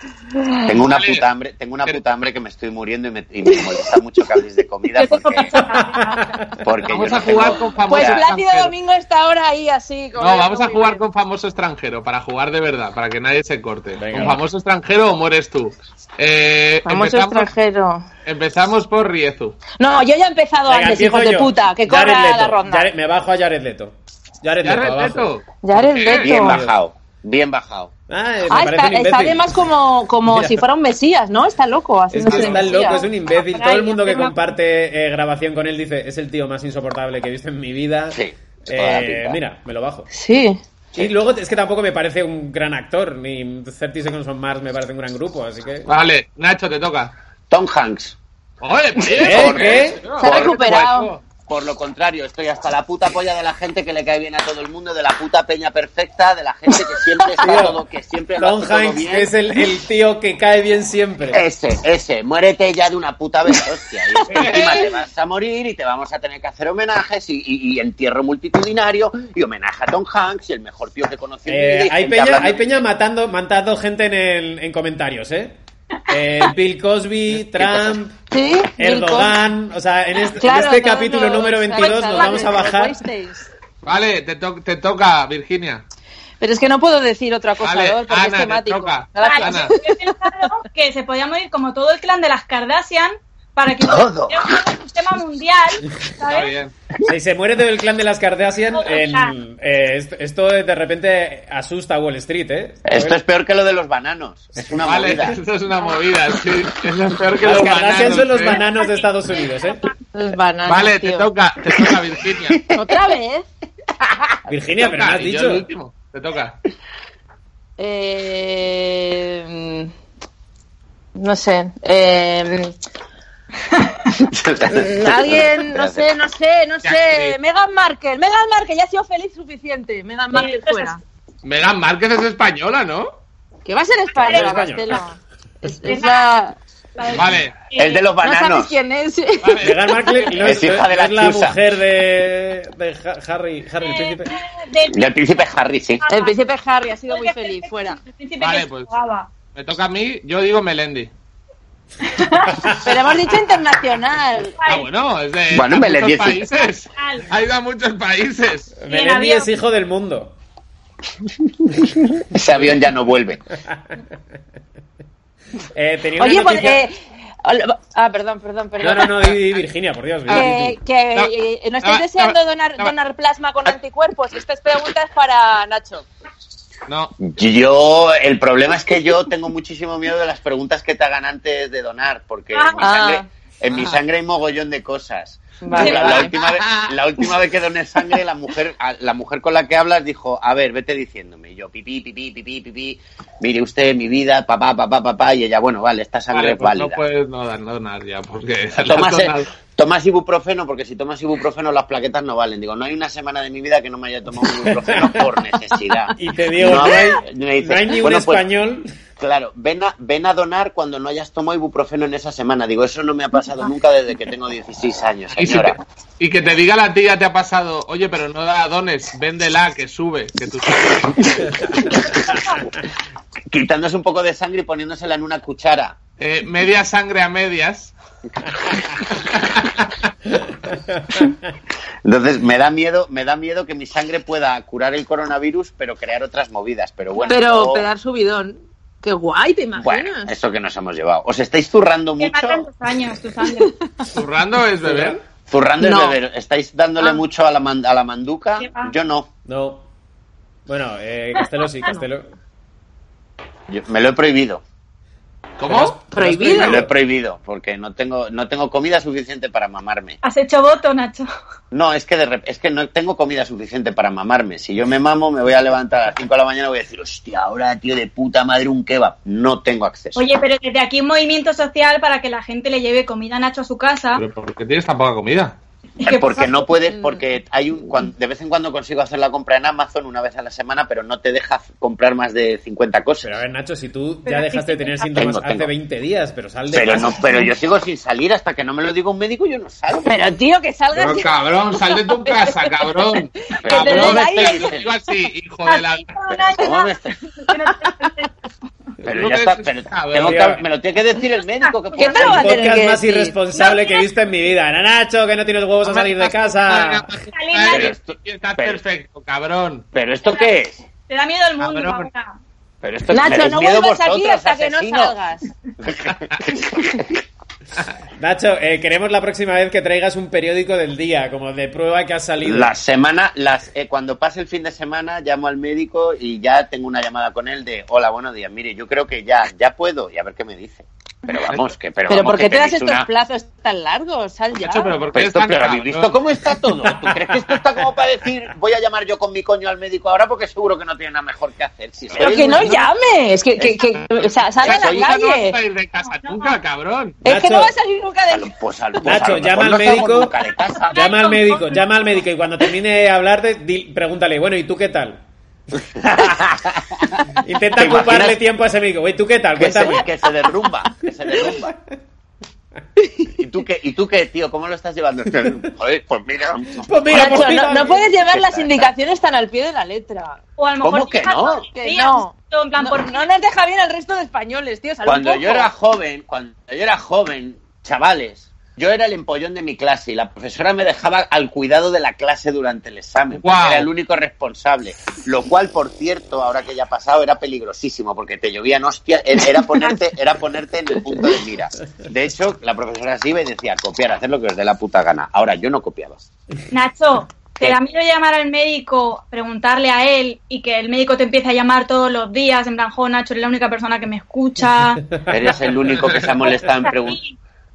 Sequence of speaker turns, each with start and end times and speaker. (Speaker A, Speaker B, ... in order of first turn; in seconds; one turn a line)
Speaker A: 0.3-0.7
Speaker B: 0.7-5.6
Speaker C: 0.8-1.2
Speaker A: 3.5-3.9
Speaker D: 5.0-6.4
Speaker E: 5.6-6.5
Speaker B: 6.6-8.3
Speaker C: 6.9-8.7
Speaker A: 7.8-11.0
Speaker C: 10.2-17.5
Speaker E: 14.0-14.4
Speaker A: 16.9-18.1
Speaker C: 18.2-19.6
Speaker A: 19.8-22.9
Speaker E: 20.7-25.4
Speaker C: 24.6-26.4
Speaker A: 25.6-26.6
Speaker B: 26.0-27.9
Speaker E: 26.4-26.8
Speaker E: 28.1-29.5
Speaker A: 28.5-33.0
Speaker E: 30.3-30.6
Speaker E: 32.1-40.1
Speaker C: 32.3-32.6
Speaker D: 32.7-34.4
Speaker B: 38.1-39.4
Speaker A: 40.1-40.6
Speaker E: 40.9-45.9
Speaker C: 45.9-47.1
Speaker B: 47.5-48.2
Speaker C: 48.6-51.2
Speaker B: 49.1-50.8
Speaker E: 49.1-50.0
Speaker A: 50.2-51.1
Speaker B: 51.5-59.3
Speaker E: 57.4-57.8
Speaker E: 58.4-61.5
Speaker B: 61.3-72.6
Speaker C: 64.3-64.9
Speaker E: 71.5-75.5
Speaker E: 76.1-78.2
Speaker B: 77.6-78.0
Speaker A: 78.3-79.4
Speaker E: 78.8-83.0
Speaker A: 80.4-83.5
Speaker D: 81.8-82.5
Speaker C: 83.8-85.8
Speaker A: 86.4-90.5
Speaker C: 87.6-89.8
Speaker D: 89.2-96.5
Speaker B: 93.8-94.6
Speaker C: 96.3-96.7
Speaker E: 97.1-103.2
Speaker D: 98.8-99.3
Speaker B: 102.9-105.4
Speaker C: 104.8-108.6
Speaker E: 107.4-109.9
Speaker D: 108.5-109.9
Speaker A: 110.1-111.3
Speaker C: 110.7-112.7
Speaker B: 112.4-112.8
Speaker A: 112.7-113.5
Speaker E: 114.5-115.7
Speaker C: 114.8-116.6
Speaker A: 117.8-119.9
Speaker A: 121.2-122.7
Speaker B: 124.2-126.1
Speaker A: 124.7-131.0
Speaker C: 126.8-127.4
Speaker D: 130.3-131.0
Speaker C: 131.4-133.2
Speaker A: 133.7-136.6
Speaker D: 134.2-135.0
Speaker E: 134.2-135.0
Speaker D: 135.8-136.3
Speaker D: 137.0-138.0
Speaker C: 137.1-137.6
Speaker B: 137.8-138.7
Speaker A: 138.2-139.8
Speaker C: 139.4-140.5
Speaker E: 139.6-144.4
Speaker B: 140.4-141.6
Speaker D: 143.8-145.1
Speaker B: 144.9-146.0
Speaker D: 146.0-146.5
Speaker A: 146.1-148.0
Speaker D: 147.0-149.3
Speaker C: 148.4-148.9
Speaker C: 149.5-151.1
Speaker D: 152.1-152.8
Speaker E: 152.5-152.9
Speaker A: 152.7-154.6
Speaker D: 154.6-154.9
Speaker C: 154.7-158.7
Speaker B: 155.5-156.5
Speaker D: 156.9-157.3
Speaker E: 158.8-160.3
Speaker D: 158.9-159.5
Speaker B: 161.7-163.4
Speaker E: 165.7-166.8
Speaker A: 166.2-169.3
Speaker E: 168.8-170.7
Speaker C: 170.3-170.6
Speaker A: 170.3-176.1
Speaker C: 171.1-172.9
Speaker C: 176.9-177.2
Speaker B: 177.2-197.0
Speaker D: 182.5-182.9
Speaker A: 182.8-183.3
Speaker C: 183.7-184.0
Speaker A: 185.6-186.4
Speaker D: 185.7-186.3
Speaker C: 185.9-186.9
Speaker C: 196.3-199.5
Speaker B: 198.8-208.4
Speaker E: 204.6-205.2
Speaker E: 206.1-208.9
Speaker B: 209.2-215.8
Speaker C: 215.4-221.6
Speaker B: 223.5-226.0
Speaker C: 226.2-227.9
Speaker C: 229.1-229.9
Speaker E: 230.4-231.3
Speaker B: 232.1-237.9
Speaker A: 237.3-240.3
Speaker B: 239.8-242.7
Speaker D: 242.2-243.7
Speaker A: 243.4-243.8
Speaker C: 244.1-245.2
Speaker B: 245.5-249.3
Speaker A: 245.8-246.2
Speaker D: 248.6-248.9
Speaker E: 249.5-249.8
Speaker E: 250.7-252.3
Speaker B: 253.7-254.6
Speaker C: 255.6-256.0
Speaker E: 255.7-256.9
Speaker A: 256.1-256.8
Speaker B: 256.5-260.2
Speaker D: 260.2-261.3
Speaker B: 261.7-270.2
Speaker D: 270.1-274.2
Speaker C: 274.2-275.6
Speaker D: 276.0-276.6
Speaker B: 276.0-283.4
Speaker A: 276.9-277.2
Speaker E: 283.2-287.2
Speaker D: 284.3-285.1
Speaker B: 285.1-285.7
Speaker B: 286.7-290.1
Speaker A: 290.0-294.7
Speaker C: 290.9-296.6
Speaker B: 293.6-294.9
Speaker D: 295.6-296.9
Speaker B: 296.6-297.2
Speaker D: 297.5-298.3
Speaker A: 297.5-298.1
Speaker B: 299.1-302.6
Speaker C: 299.1-300.4
Speaker E: 300.2-300.6
Speaker D: 301.6-302.4
Speaker A: 302.0-303.4
Speaker E: 302.2-307.1
Speaker D: 303.5-304.1
Speaker C: 305.9-309.9
Speaker D: 307.3-307.9
Speaker B: 307.7-308.8
Speaker B: 309.9-310.8
Speaker D: 311.1-312.4
Speaker C: 311.6-312.1
Speaker B: 312.8-315.1
Speaker A: 313.1-315.5
Speaker B: 315.8-317.2
Speaker C: 316.1-316.5
Speaker E: 318.2-322.7
Speaker B: 322.4-333.1
Speaker A: 332.1-335.0
Speaker C: 334.5-336.1
Speaker B: 335.1-342.9
Speaker E: 336.9-337.6
Speaker C: 342.2-342.9
Speaker A: 342.2-345.6
Speaker C: 344.6-347.2
Speaker B: 344.6-345.1
Speaker D: 346.0-346.6
Speaker E: 347.2-347.7
Speaker A: 347.2-349.0
Speaker B: 348.3-351.0
Speaker E: 349.0-350.3
Speaker D: 350.9-352.2
Speaker E: 350.9-355.2
Speaker B: 356.1-356.8
Speaker E: 357.4-360.1
Speaker B: 357.8-358.4
Speaker B: 359.6-361.7
Speaker A: 363.1-363.3
Speaker B: 363.4-367.7
Speaker E: 366.8-368.1
Speaker A: 367.1-370.4
Speaker B: 368.2-368.9
Speaker D: 370.6-373.3
Speaker B: 370.8-371.7
Speaker A: 371.8-375.7
Speaker B: 375.0-396.2
Speaker C: 383.4-383.9
Speaker D: 396.7-405.1
Speaker B: 405.3-407.2
Speaker D: 406.4-407.4